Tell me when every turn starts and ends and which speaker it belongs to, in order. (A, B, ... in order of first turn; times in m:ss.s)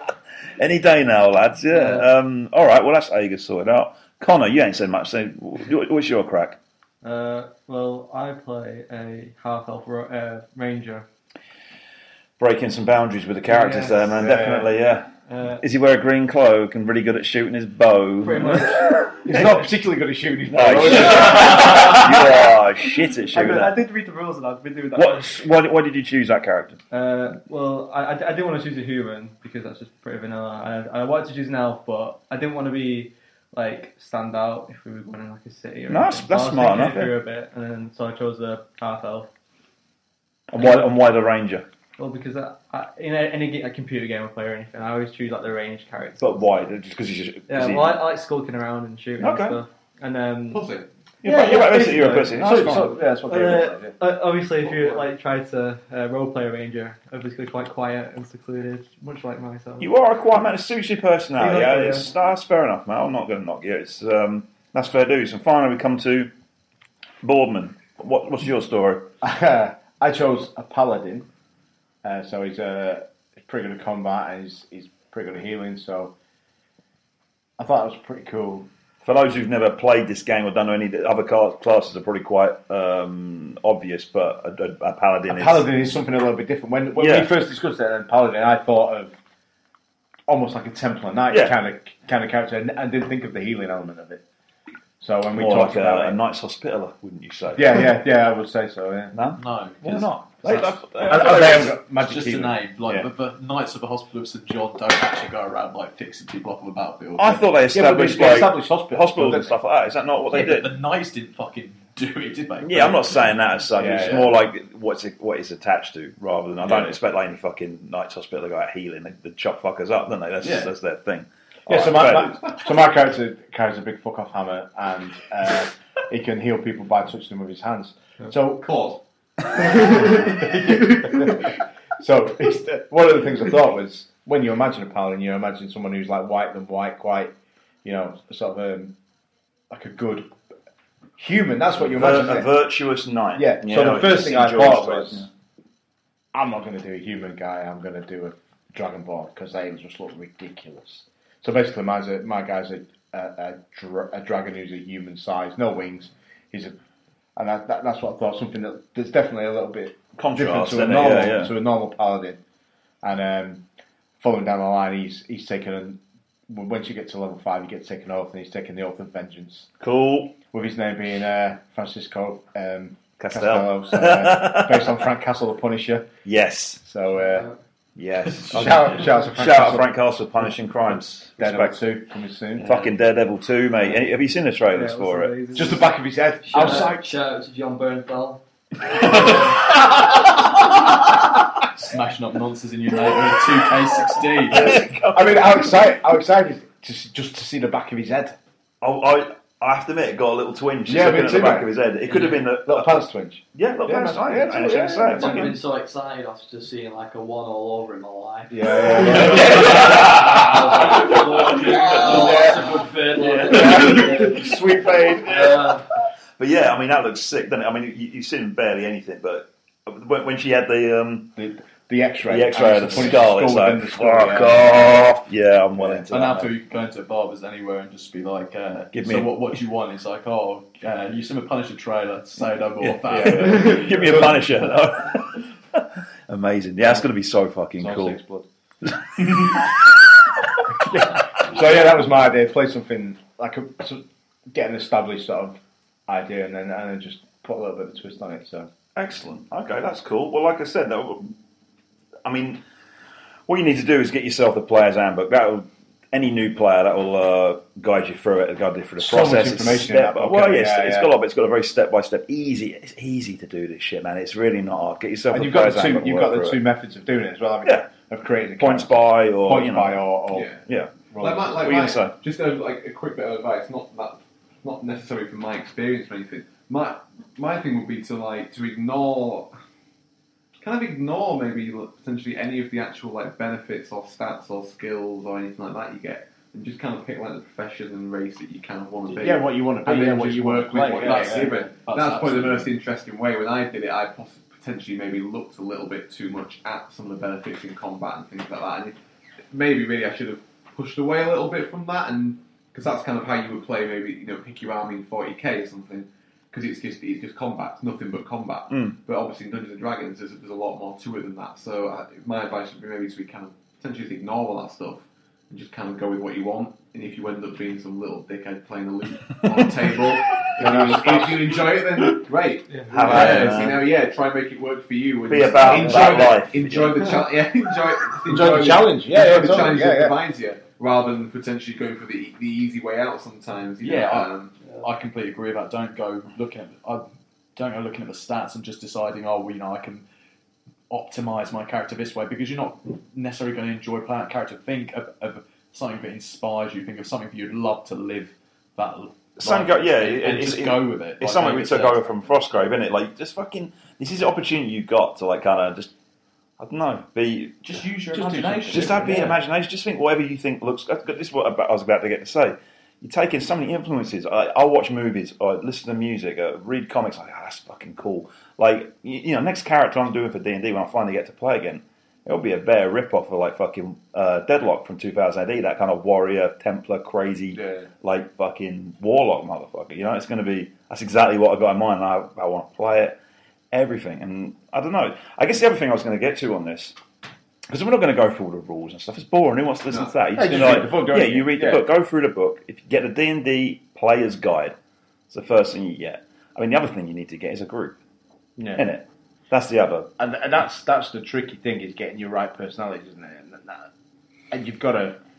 0:00.6-0:06.6 A
0:01.7-0:02.1 B
0:07.0-0:11.1 B
0:12.4-0:19.6 A
0:13.5-0:14.5 B
0:14.2-0:14.7 C
0:15.3-0:15.6 B
0:18.2-0:19.4 B
0:19.2-0:22.4 C
0:20.5-0:23.8 A
0:20.8-0:22.1 B
0:23.2-0:25.4 B
0:25.0-0:26.8 A
0:26.9-0:39.3 B
0:35.9-0:37.2 A
0:40.5-0:41.7 A
0:40.5-0:40.9 B
0:42.0-0:46.3 B
0:46.2-0:48.1 A
0:47.5-0:50.7 B
0:49.2-0:49.6 A
0:50.5-0:50.9 D
0:51.2-0:52.9 A
0:51.2-0:59.9 B
0:51.3-0:54.0 C
0:59.8-1:06.3 A
1:01.4-1:02.1 B
1:07.2-1:09.1 A
1:09.2-1:11.3 C
1:12.0-1:16.1 C
1:17.6-1:18.7 C
1:19.0-1:25.7 A
1:25.3-1:29.1 C
1:27.0-1:27.3 A
1:30.3-1:34.2 C
1:31.3-1:31.6 A
1:35.0-1:36.2 C
1:35.3-1:37.9 A
1:37.6-1:39.2 C
1:39.1-1:41.8 A
1:39.4-1:40.8 E
1:41.1-1:43.1 C
1:41.3-1:47.4 E
1:47.2-1:50.7 A
1:47.7-1:49.6 C
1:50.3-1:53.3 E
1:52.6-2:02.6 A
1:53.8-1:54.4 C
2:00.4-2:00.7 E
2:01.7-2:08.7 C
2:08.6-2:09.0 D
2:09.6-2:10.3 D
2:09.7-2:17.3 C
2:17.8-2:19.0 C
2:19.7-2:20.4 C
2:21.2-2:22.5 C
2:21.9-2:25.3 A
2:23.4-2:25.3 C
2:26.3-2:36.8 C
2:37.4-2:42.4 C
2:40.2-2:41.5 A
2:43.0-2:43.6 C
2:44.2-2:49.7 C
2:49.8-2:50.4 A
2:50.5-2:56.1 C
2:53.2-2:55.0 A
2:56.2-2:56.8 A
2:56.8-2:57.5 C
2:57.2-2:57.6 F
2:58.0-3:01.8 A
2:58.4-2:59.9 C
3:01.4-3:02.9 C
3:02.6-3:05.5 A
3:04.7-3:05.9 B
3:05.5-3:07.1 C
3:06.4-3:09.7 F
3:11.8-3:14.8 E
3:14.4-3:16.0 A
3:14.5-3:18.4 C
3:18.8-3:25.6 A
3:20.9-3:25.5 C
3:22.1-3:22.4 F
3:25.1-3:35.9 F
3:28.5-3:31.0 C
3:29.1-3:32.5 A
3:31.7-3:32.8 C
3:33.2-3:35.7 A
3:33.4-3:35.6 C
3:36.4-3:41.3 A
3:41.4-3:45.1 C
3:42.2-3:46.5 A
3:45.7-3:46.1 C
3:46.1-3:54.1 E
3:48.9-3:49.6 A
3:52.8-3:58.2 A
3:53.1-3:54.4 C
3:57.8-3:58.5 C
3:58.8-3:59.9 A
4:00.8-4:08.7 C
4:09.0-4:11.3 A
4:12.2-4:12.6 A
4:13.5-4:26.6 A
4:19.0-4:21.1 C
4:25.3-4:30.5 C
4:28.6-4:30.1 A
4:30.3-4:30.6 D
4:30.6-4:30.9 A
4:31.1-4:31.8 C
4:31.2-4:39.5 D
4:31.6-4:32.2 A
4:40.6-4:59.0 D
4:49.1-4:51.6 C
4:50.8-4:52.7 E
4:59.5-5:34.6 D
5:08.7-5:09.0 A
5:20.6-5:21.7 C
5:22.7-5:23.1 B
5:22.9-5:23.8 A
5:25.3-5:27.2 A
5:25.7-5:26.3 C
5:28.2-5:30.2 C
5:33.8-5:40.0 E
5:40.9-5:52.0 E
5:49.4-5:55.9 A
5:56.6-5:57.8 A
5:57.6-5:59.4 E
5:58.1-5:59.3 C
5:58.5-6:23.2 A
6:17.6-6:17.9 C
6:23.7-6:27.0 A
6:27.7-6:34.8 A
6:29.9-6:30.8 D
6:30.4-6:31.8 C
6:35.3-6:38.0 A
6:38.6-6:38.9 C
6:38.8-6:40.1 A
6:40.2-6:43.9 C
6:44.5-6:45.2 C